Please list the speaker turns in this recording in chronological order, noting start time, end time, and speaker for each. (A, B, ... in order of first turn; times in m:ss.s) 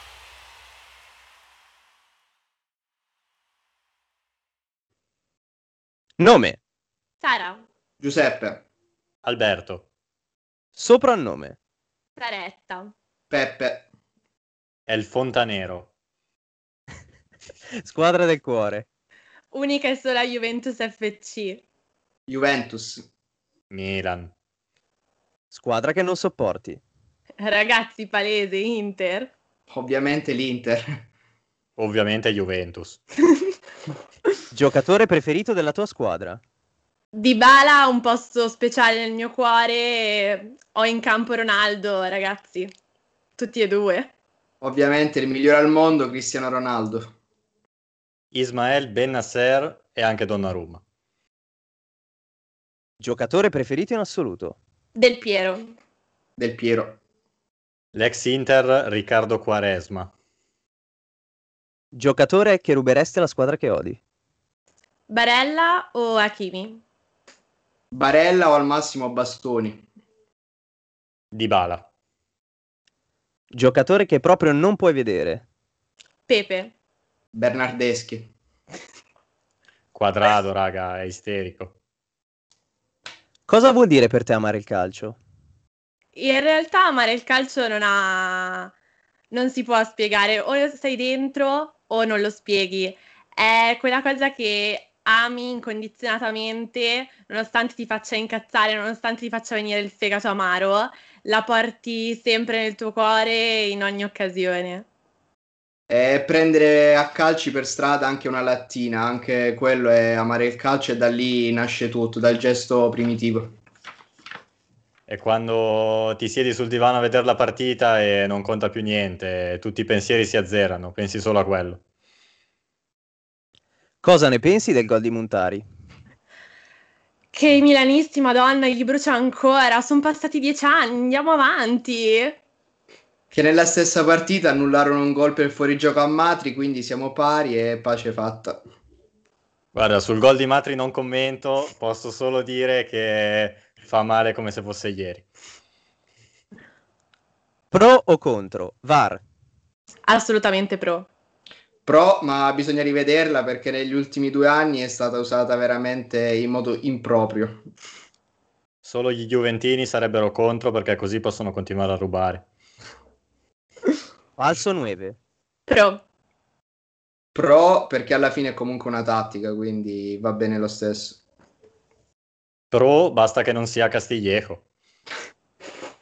0:06.2-0:06.6 A
0:07.2-0:07.6 B
0:08.0-0:08.6 C
0:09.2-0:09.8 D
0:10.8-0:11.6 A
0:12.2-0:12.9 B
0:13.3-0:13.8 C
0:14.9-0:15.9 D
0:17.8-0:18.9 A
0:19.5-0:21.6 B
0:22.3-0:23.0 C
0:23.7-0:24.3 D
0:25.5-0:26.8 A
0:27.4-0:29.3 B
0:29.7-0:31.0 C
0:31.8-0:33.0 D
0:34.5-0:36.4 A
0:37.1-0:42.7 B
0:43.4-0:44.1 B
0:44.6-0:47.1 C
0:48.3-0:50.8 D
0:53.0-0:54.6 A
0:55.0-0:55.8 B
0:56.4-0:57.0 C
0:57.9-1:00.1 D
1:01.9-1:04.0 A
1:05.1-1:06.8 B
1:07.9-1:09.8 C
1:11.3-1:11.9 D
1:13.5-1:15.4 A
1:16.3-1:16.7 B
1:17.3-1:18.3 C
1:19.9-1:21.8 D
1:23.5-1:25.2 A
1:26.2-1:28.7 B
1:29.3-1:44.9 B
1:45.9-1:53.6 C
1:55.1-2:01.8 D
2:04.0-2:05.6 A
2:07.3-2:12.4 B
2:13.3-2:18.6 C
2:19.7-2:25.3 D
2:27.7-2:29.2 A
2:30.1-2:31.1 B
2:31.9-2:37.7 C
2:38.8-2:42.5 D
2:44.4-2:45.2 A
2:45.7-2:46.0 B
2:47.4-2:51.2 C
2:52.7-2:54.6 D